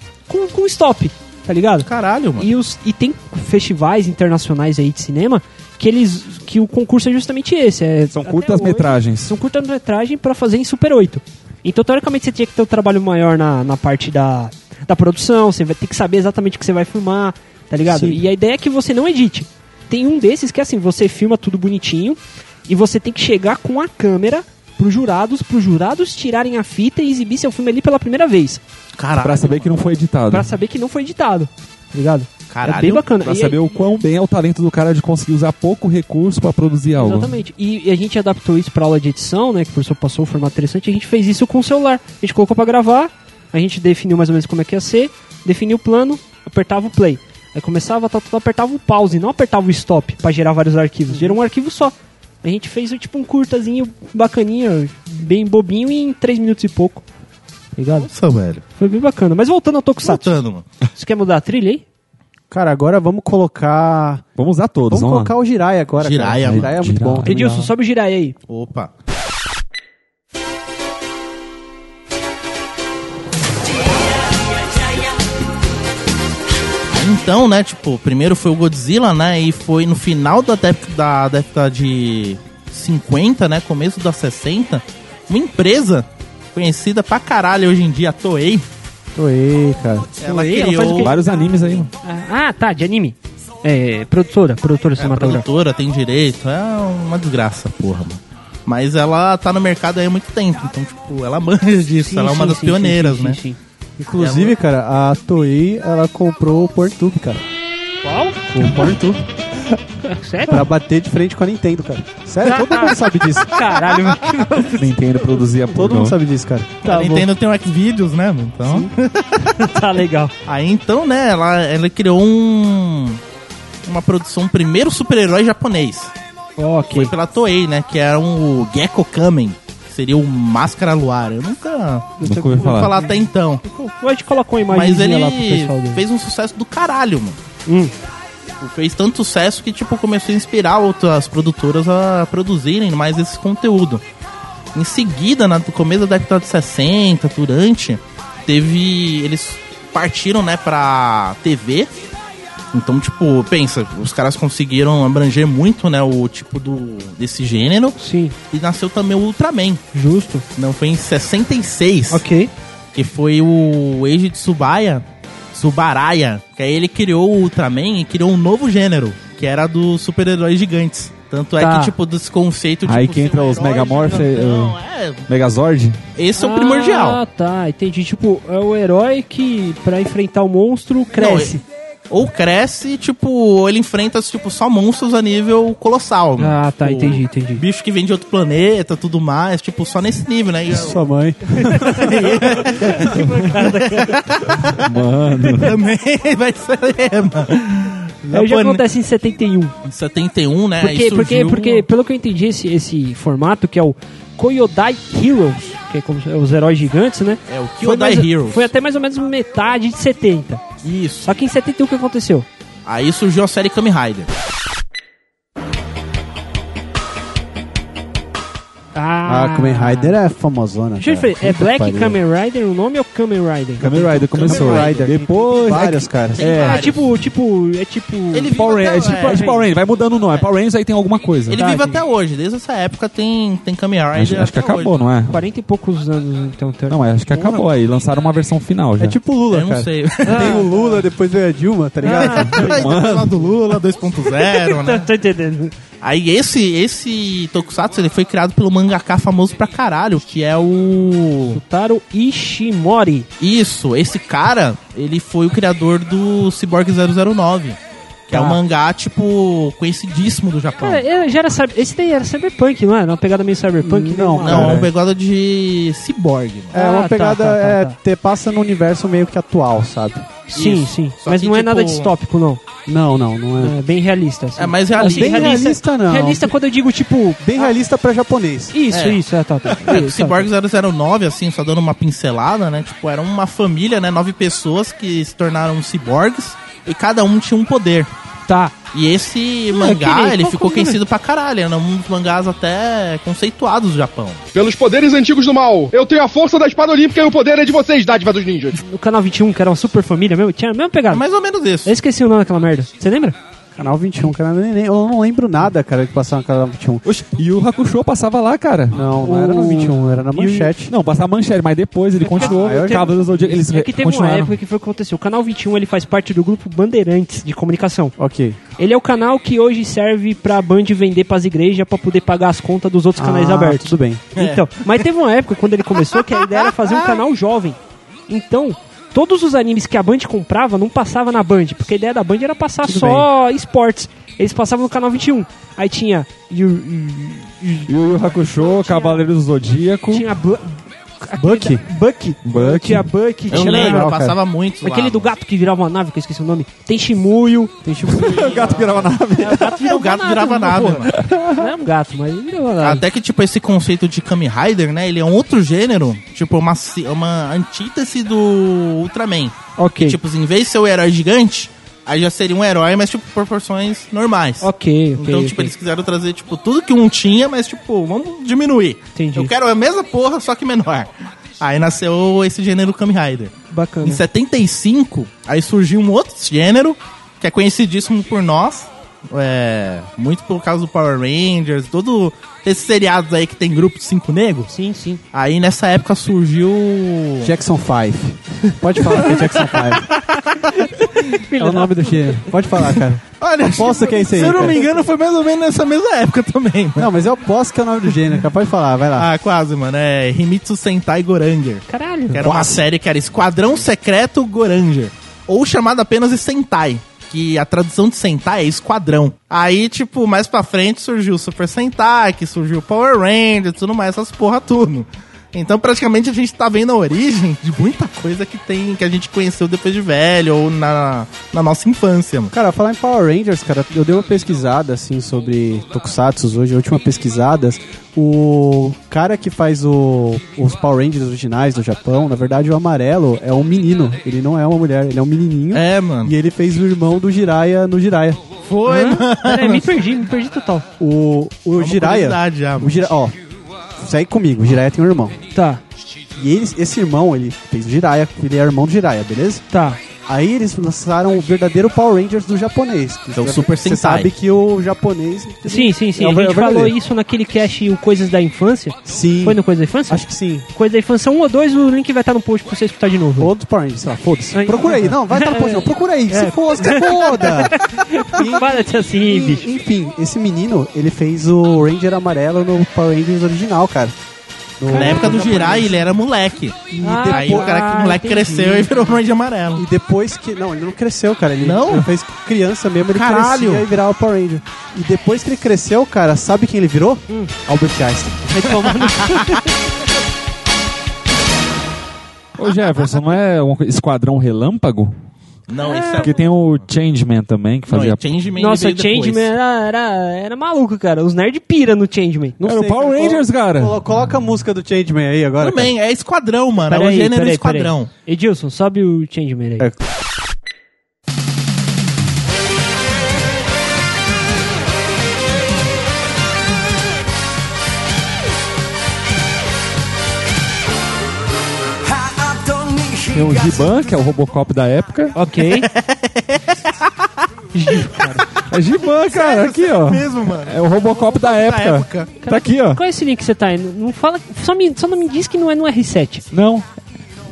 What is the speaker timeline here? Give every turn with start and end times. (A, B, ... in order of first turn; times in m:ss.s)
0:00.3-0:28.6 A
0:01.8-0:02.5 B
0:08.1-0:09.3 C
0:17.9-0:18.2 D
0:29.0-0:29.8 B
0:29.2-0:30.5 C
0:30.3-0:33.7 A
0:32.5-0:33.0 B
0:33.2-0:37.4 C
0:37.0-0:57.0 A
0:57.8-0:58.1 A
0:58.0-0:58.6 B
0:58.8-1:00.3 A
1:00.0-1:00.7 B
1:00.9-1:01.8 A
1:02.5-1:04.2 D
1:04.4-1:05.3 C
1:04.9-1:07.7 D
1:06.0-1:06.7 B
1:06.4-1:07.4 C
1:07.2-1:08.3 A
1:08.5-1:08.9 B
1:16.9-1:28.6 B
1:29.1-1:30.1 D
1:30.2-1:31.1 B
1:30.2-1:31.3 A
1:31.0-1:31.9 C
1:32.0-1:35.4 A
1:35.0-1:43.4 B
1:42.0-1:43.6 A
1:44.0-1:47.4 D
1:44.2-1:44.5 B
1:48.0-1:48.5 A
1:48.5-1:49.2 D
1:50.0-1:50.7 A
1:50.5-1:53.9 D
1:52.4-1:55.2 A
1:54.7-1:56.2 C
1:55.7-1:56.8 D
1:56.8-1:59.6 B
1:56.8-1:57.3 A
1:59.4-2:00.3 A
2:00.4-2:03.2 B
2:03.8-2:06.1 B
2:06.6-2:07.1 A
2:06.9-2:13.6 B
2:12.2-2:16.0 A
2:12.2-2:12.9 C
2:14.7-2:17.4 B
2:17.6-2:17.9 A
2:18.6-2:24.0 B
2:24.7-2:31.9 B
2:32.7-2:38.0 B
2:38.0-2:38.3 A
2:38.5-2:39.8 B
2:39.9-2:40.4 A
2:40.6-2:42.2 B
2:42.1-2:42.5 A
2:42.9-2:55.2 B
2:51.6-2:51.9 A
2:52.8-2:54.8 C
2:55.3-2:56.0 C
2:56.1-2:57.2 B
2:56.4-3:01.6 A
3:01.2-3:01.6 B
3:02.1-3:11.0 B
3:06.4-3:07.6 A
3:10.7-3:12.3 D
3:11.6-3:14.2 A
3:12.0-3:14.8 B
3:14.8-3:15.8 C
3:15.5-3:18.8 B
3:18.3-3:19.7 A
3:19.8-3:21.9 B
3:20.8-3:30.6 A
3:27.5-3:28.7 B
3:30.8-3:31.3 B
3:31.2-3:32.4 A
3:32.8-3:34.3 B
3:38.9-3:40.2 A
3:39.2-3:42.2 D
3:41.0-3:44.9 A
3:43.8-3:46.8 C
3:44.4-3:46.5 D
3:44.5-3:44.9 B
3:46.3-3:47.0 B
3:46.5-3:49.6 A
3:48.3-3:49.5 B
3:48.5-3:51.6 C
3:51.5-3:54.9 B
3:51.5-3:52.0 A
3:54.2-3:55.4 C
3:55.3-3:57.0 A
3:56.9-3:59.2 C
3:59.0-4:03.0 D
3:59.5-4:00.6 B
4:00.2-4:01.0 A
4:02.0-4:02.9 A
4:02.0-4:05.1 B
4:02.5-4:03.4 C
4:04.2-4:05.7 A
4:06.0-4:11.6 B
4:11.5-4:13.3 A
4:13.4-4:17.8 B
4:18.3-4:21.0 B
4:18.3-4:18.6 A
4:20.8-4:24.8 A
4:23.8-4:24.9 D
4:24.4-4:26.7 B
4:26.7-4:28.0 A
4:26.7-4:30.3 D
4:30.5-4:32.6 A
4:30.5-4:32.1 B
4:32.8-4:33.8 D
4:33.6-4:37.7 A
4:34.6-4:35.6 B
4:35.0-4:36.5 D
4:37.4-4:38.8 D
4:38.7-4:40.5 A
4:38.9-4:48.1 B
4:48.5-4:48.8 A
4:48.9-4:54.4 B
4:49.7-4:51.0 A
4:54.5-4:58.8 E
4:58.8-5:01.2 A
5:01.1-5:01.9 B
5:01.8-5:03.4 A
5:03.8-5:07.0 D
5:07.0-5:09.0 C
5:08.9-5:10.9 D
5:09.2-5:10.7 A
5:10.8-5:14.6 C
5:12.2-5:18.1 A
5:12.4-5:13.5 D
5:18.2-5:18.6 D
5:18.8-5:39.2 A
5:23.2-5:24.2 D
5:24.4-5:25.0 B
5:26.1-5:27.2 B
5:32.8-5:33.3 D
5:37.9-5:40.2 C
5:40.1-5:44.1 A
5:41.4-5:41.9 D
5:42.5-5:43.0 C
5:43.5-5:44.4 D
5:43.5-5:45.3 B
5:44.8-5:53.0 A
5:47.8-5:48.4 D
5:48.1-5:49.8 C
5:49.7-5:51.1 B
5:51.1-5:51.6 C
5:52.8-6:13.5 B
5:59.8-6:00.2 A
6:04.6-6:05.7 A
6:09.1-6:09.5 A
6:13.7-6:14.2 A
6:14.0-6:24.7 B
6:24.7-6:25.2 A
6:25.3-6:27.5 B
6:27.4-6:30.1 D
6:29.0-6:29.4 A
6:30.2-6:32.4 A
6:31.5-6:34.8 D
6:33.4-6:37.1 B
6:34.4-6:34.7 A
6:37.0-6:39.3 D
6:39.2-7:02.5 B
6:41.9-6:42.4 A
6:42.4-6:42.8 D
7:02.5-7:18.4 D
7:15.7-7:16.3 B
7:18.6-7:19.9 B
7:18.8-7:20.9 A
7:21.0-7:23.4 D
7:21.8-7:23.0 B
7:24.0-7:25.4 D
7:25.5-7:25.8 A
7:26.4-7:29.6 D
7:29.7-7:30.0 A
7:30.3-7:36.9 D
7:33.3-7:34.3 B
7:35.6-7:43.5 A
7:39.0-7:40.6 D
7:43.4-7:54.1 D
7:44.5-7:49.7 A
7:54.8-7:55.9 D
7:54.9-7:55.9 A
7:54.9-7:59.8 B
7:56.9-7:57.7 D
7:57.0-7:59.2 A
7:59.7-8:08.5 D
8:01.6-8:02.1 B
8:03.1-8:03.9 B
8:08.5-8:09.7 A
8:12.6-8:15.1 C
8:15.7-8:16.5 B
8:15.8-8:16.4 A
8:16.2-8:18.2 C
8:17.9-8:19.5 B
8:18.6-8:22.6 A
8:22.6-8:25.9 D
8:22.6-8:24.0 C
8:25.6-8:28.1 B
8:26.8-8:29.9 A
8:43.3-8:45.4 C
8:45.3-8:45.9 A
8:45.6-8:47.0 B
8:47.7-8:48.4 A
8:48.7-8:53.0 C
8:49.0-8:52.4 B
8:52.4-8:56.4 A
8:56.5-8:56.8 C